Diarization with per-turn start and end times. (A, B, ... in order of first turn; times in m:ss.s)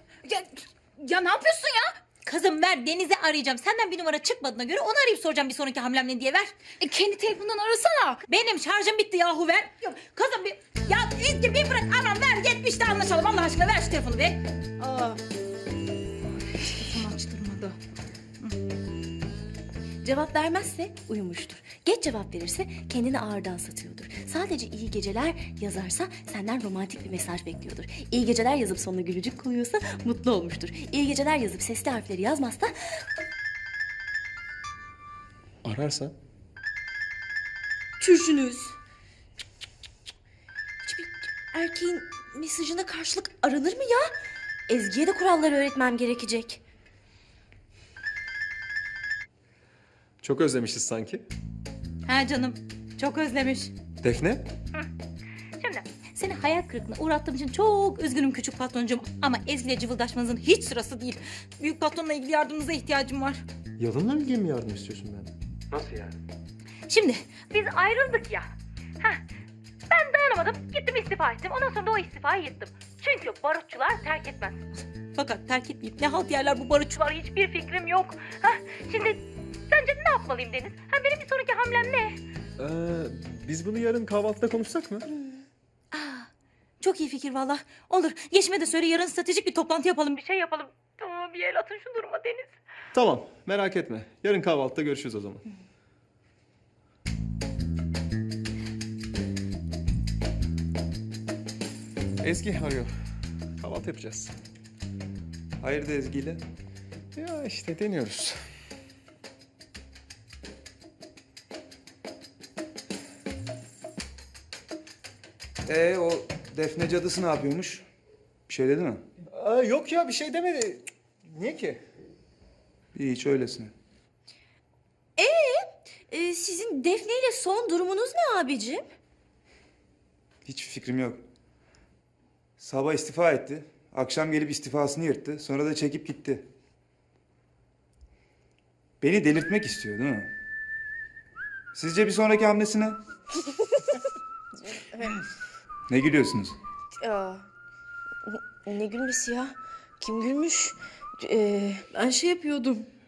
0:00.2-0:01.9 A
0:02.2-0:06.5 B
0:06.8-0:08.2 A
0:08.3-0:14.4 B
0:14.8-0:15.2 C
0:16.7-0:17.8 B
0:20.0-0:32.7 C
0:35.6-0:36.1 D
0:38.0-0:38.8 C
0:40.8-0:44.1 C
0:44.7-0:46.6 C
0:50.2-0:51.2 D
0:52.1-0:53.7 B
0:54.0-0:54.5 D
0:55.6-1:03.4 B
1:03.8-1:05.3 D
1:05.8-1:06.1 D
1:06.9-1:08.5 B
1:09.9-1:22.2 B
1:22.6-1:25.1 D
1:25.9-1:26.3 B
1:26.8-1:32.5 B
1:33.0-1:35.4 D
1:42.2-1:42.9 D
1:43.6-1:44.3 D
1:45.6-1:46.4 E
1:47.2-1:48.4 D
1:55.7-1:57.9 E
1:58.5-1:59.0 E
1:59.3-2:01.8 D
2:03.0-2:03.7 E
2:05.2-2:08.8 C
2:10.5-2:11.2 E
2:12.6-2:16.5 E
2:19.0-2:20.3 E
2:21.7-2:23.0 E
2:25.9-2:26.6 E
2:27.0-2:27.4 C
2:28.6-2:32.9 C